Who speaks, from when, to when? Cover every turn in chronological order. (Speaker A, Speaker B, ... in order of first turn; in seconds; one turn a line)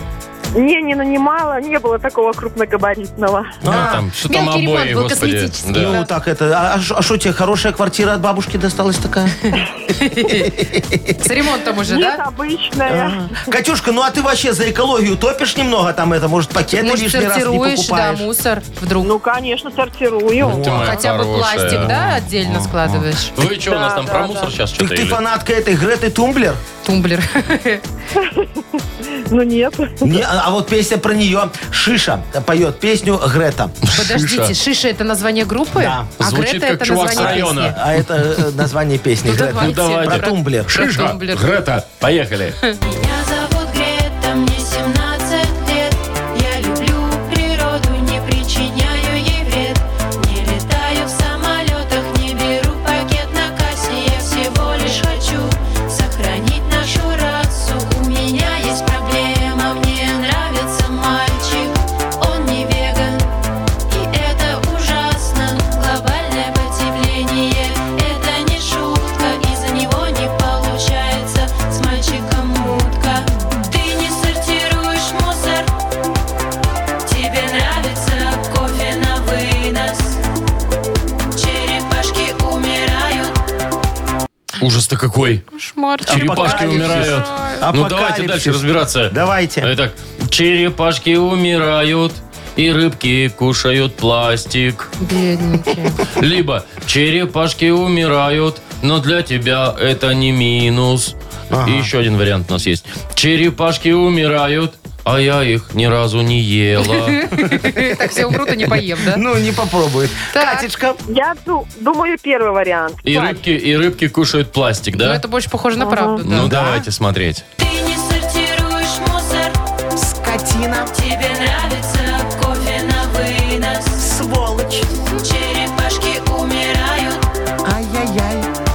Speaker A: 0.6-3.6
Speaker B: 3.6-4.0
Speaker C: 3.6-6.0
Speaker D: 4.3-6.1
Speaker B: 5.8-9.5
Speaker D: 9.9-10.5
Speaker B: 10.4-11.3
Speaker D: 11.2-12.2
Speaker A: 11.9-13.2
Speaker B: 12.9-18.3
Speaker D: 16.8-19.1
Speaker A: 19.0-20.7
Speaker B: 20.4-21.0
Speaker C: 20.4-21.9
Speaker D: 20.7-23.3
Speaker B: 21.7-23.1
Speaker C: 23.4-25.2
Speaker A: 23.6-24.5
Speaker B: 24.8-26.6
Speaker D: 26.8-27.8
Speaker A: 28.2-28.5
Speaker A: 29.3-30.2
Speaker B: 30.0-33.8
Speaker C: 33.8-34.5
Speaker D: 33.9-37.8
Speaker B: 35.8-36.1
Speaker C: 36.2-37.8
Speaker B: 37.1-40.8
Speaker D: 39.2-41.5
Speaker C: 39.6-42.6
Speaker E: 42.8-63.3
Speaker E: 63.9-75.7
Speaker E: 77.0-80.2
Speaker E: 81.3-83.3
Speaker C: 84.6-85.5
Speaker D: 85.5-87.7
Speaker B: 86.1-89.7
Speaker C: 86.1-94.9
Speaker D: 95.0-96.0
Speaker C: 96.1-107.3
Speaker B: 101.5-101.9
Speaker D: 106.8-109.2
Speaker B: 107.4-111.0
Speaker D: 110.3-110.7
Speaker A: 111.1-113.4
Speaker C: 113.0-115.2
Speaker D: 115.0-116.5
Speaker A: 115.8-116.2
Speaker C: 116.2-117.5
Speaker B: 116.4-116.9
Speaker E: 117.6-119.5
Speaker B: 120.0-120.9
Speaker E: 120.9-124.0
Speaker B: 124.0-124.9
Speaker E: 125.2-127.2
Speaker B: 127.6-128.5